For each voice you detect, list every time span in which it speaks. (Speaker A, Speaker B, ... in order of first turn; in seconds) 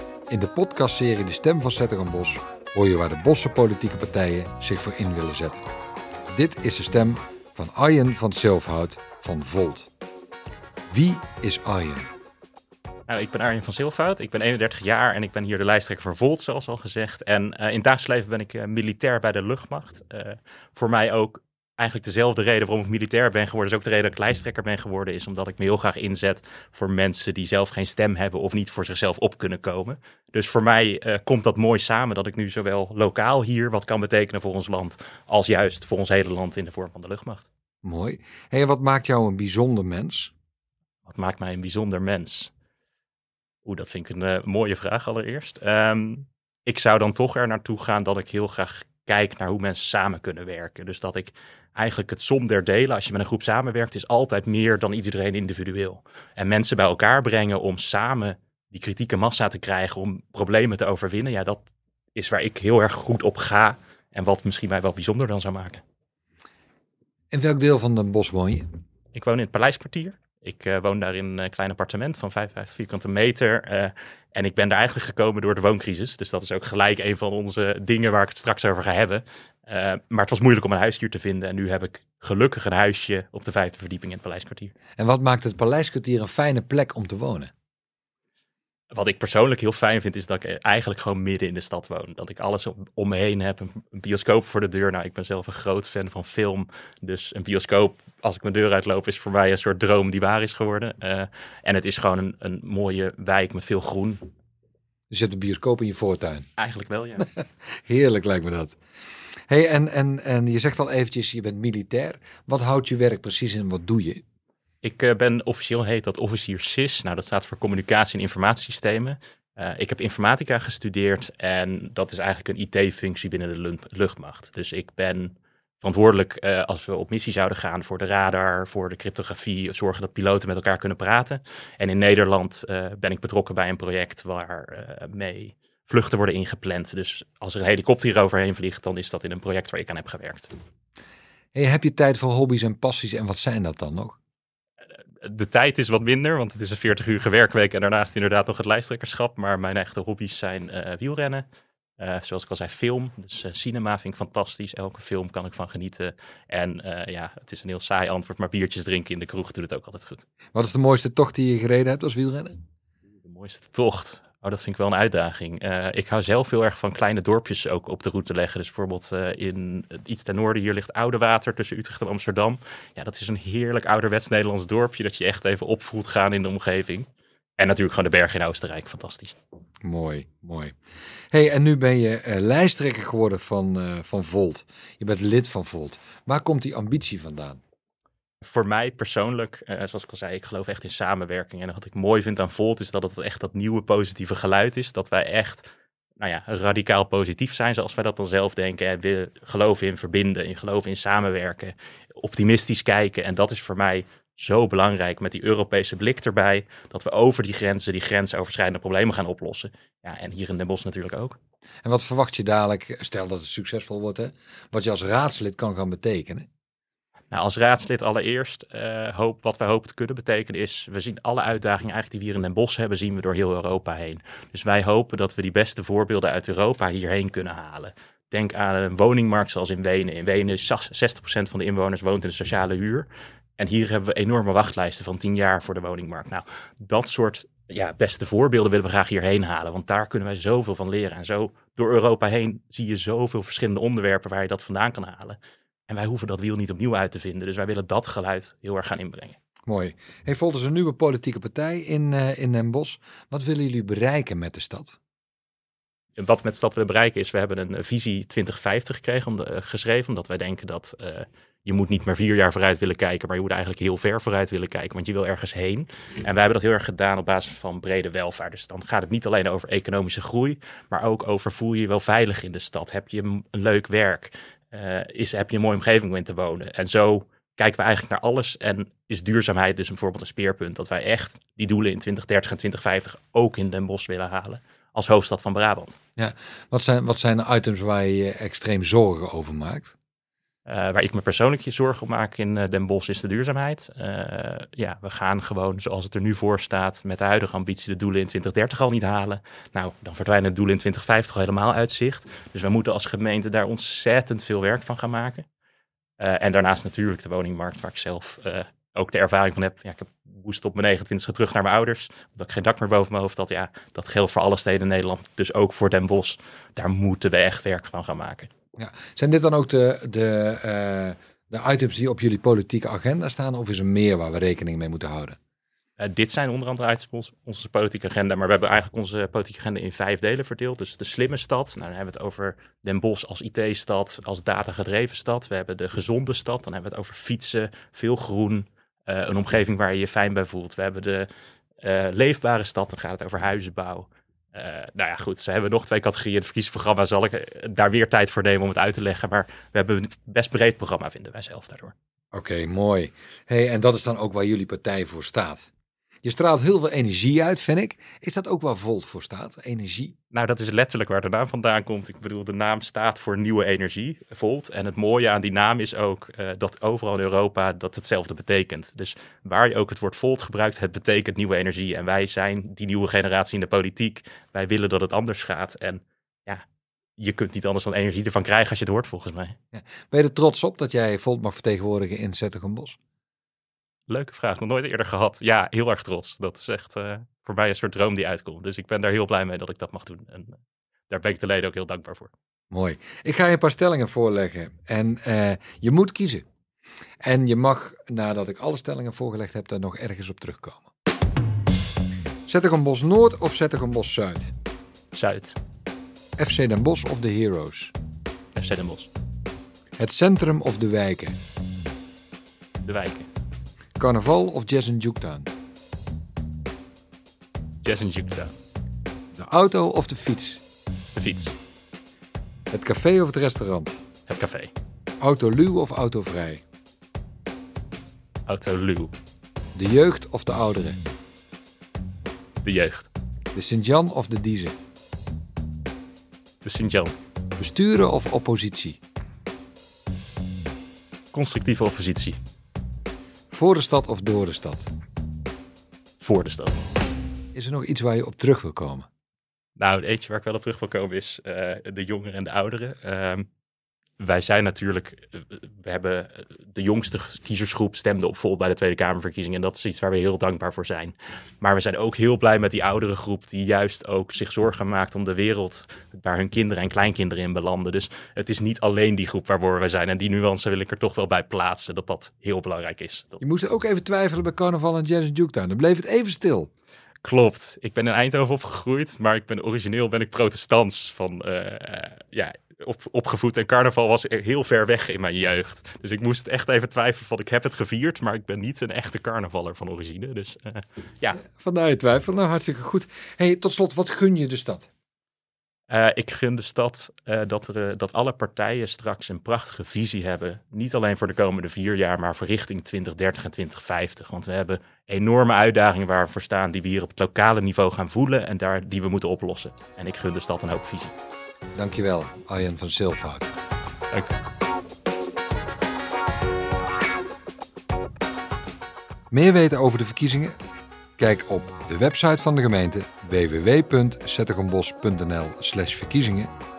Speaker A: 0.3-5.7, 6.3-9.9, 10.9-12.1, 37.8-40.3, 67.3-68.6, 85.0-87.5, 105.1-106.4, 107.9-108.8, 109.5-114.2, 141.6-144.2, 160.5-162.6, 179.8-180.7, 181.3-187.6, 211.8-216.5, 249.7-255.0, 286.2-289.9, 318.8-325.4, 352.3-355.7, 356.2-360.1, 379.7-383.0, 392.7-396.4, 397.2-400.9, 402.5-404.5, 406.4-407.9, 410.0-411.4, 414.0-415.5, 419.3-420.6, 422.7-424.0, 425.2-426.6, 429.8-431.0, 433.5-434.8, 437.6-439.0, 443.5-444.9, 447.5-449.1, 473.4-476.7, 491.5-494.9, 511.8-513.5, 519.3-520.5, 521.2-526.5
Speaker B: 13.1-37.5, 41.0-42.5, 43.6-65.8, 69.1-84.7, 88.9-104.2, 106.6-107.3, 114.8-140.5, 145.2-151.4, 152.0-160.2, 163.2-179.4, 188.4-195.7, 196.2-211.4, 217.3-233.1, 233.6-249.4, 256.2-286.0, 290.7-305.5, 306.2-318.5, 326.0-341.3, 341.8-351.9, 360.3-376.6, 377.2-379.5, 384.1-392.3, 405.1-405.6, 408.5-409.1, 412.8-413.3, 417.8-418.5, 421.1-421.5, 424.3-424.7, 428.5-429.1, 432.6-433.1, 436.6-437.1, 441.3-442.4, 446.2-446.8, 449.8-453.5, 454.2-473.4, 477.2-491.4, 495.9-511.1